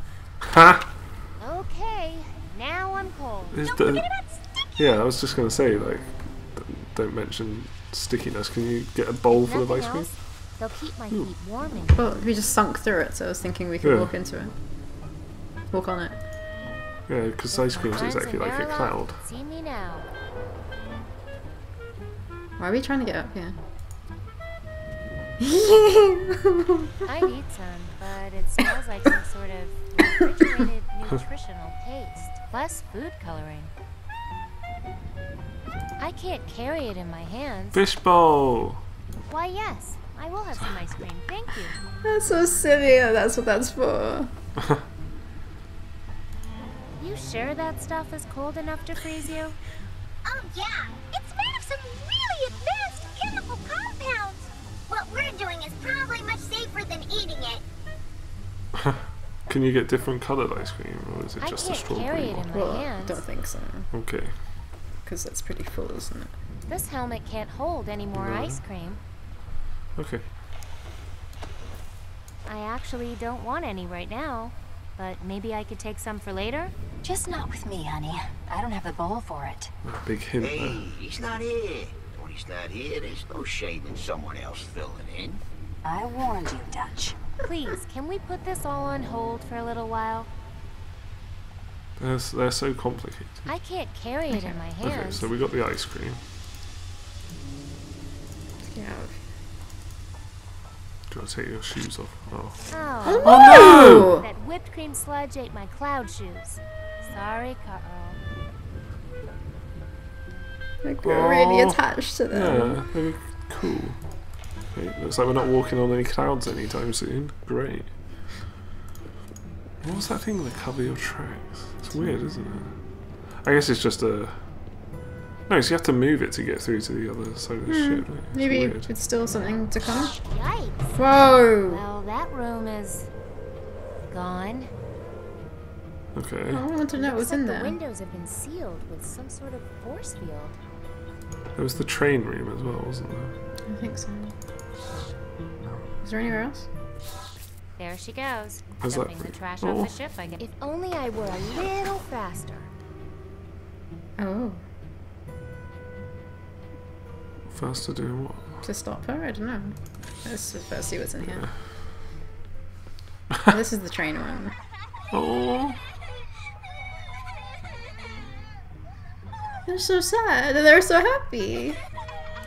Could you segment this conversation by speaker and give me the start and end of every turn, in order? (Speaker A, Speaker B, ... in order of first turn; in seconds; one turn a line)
Speaker A: 0.4-0.8
Speaker B: 1.4-3.6
Speaker A: 3.5-4.1
Speaker C: 3.6-4.7
Speaker A: 4.8-10.6
Speaker B: 9.3-12.1
Speaker D: 11.9-14.5
Speaker A: 13.8-14.1
Speaker D: 15.7-16.2
Speaker A: 17.1-19.2
Speaker B: 17.5-20.1
Speaker D: 22.6-23.6
Speaker D: 25.4-26.9
Speaker B: 27.1-33.7
Speaker B: 36.0-37.8
Speaker A: 37.7-38.8
Speaker B: 39.3-41.8
Speaker D: 42.0-44.3
Speaker B: 47.0-49.6
Speaker C: 50.2-57.6
Speaker A: 59.5-62.5
Speaker B: 61.4-63.2
Speaker D: 62.5-63.9
Speaker A: 63.9-64.4
Speaker D: 65.0-66.3
Speaker B: 66.7-69.0
Speaker A: 68.2-68.6
Speaker A: 70.0-70.2
Speaker B: 72.5-76.7
Speaker E: 77.0-79.7
Speaker A: 79.8-80.8
Speaker F: 80.4-85.4
Speaker E: 85.8-87.2
Speaker B: 87.4-90.3
Speaker A: 92.0-93.5
Speaker B: 93.5-95.3
Speaker A: 94.8-96.2
Speaker D: 98.6-99.2
Speaker A: 101.1-102.7
Speaker B: 102.7-108.2
Speaker D: 103.0-104.2
Speaker A: 103.2-104.1
Speaker D: 110.8-112.9
Speaker A: 111.0-114.0
Speaker A: 114.7-118.0
Speaker A: 119.8-122.8
Speaker A: 123.3-124.4
Speaker A: 125.5-128.9
Speaker D: 127.7-130.2
Speaker B: 130.2-131.0
Speaker D: 131.0-131.8
Speaker B: 131.7-133.1
Speaker B: 134.1-134.7
Speaker A: 136.2-136.6
Speaker D: 136.5-137.8
Speaker B: 136.9-140.6
Speaker A: 141.6-143.3
Speaker D: 143.7-144.3
Speaker D: 146.0-146.7
Speaker B: 147.8-152.7
Speaker A: 148.8-149.9
Speaker D: 154.2-154.6
Speaker A: 157.5-158.6
Speaker D: 158.6-161.5
Speaker D: 163.5-164.6
Speaker A: 165.1-165.8
Speaker D: 169.7-171.8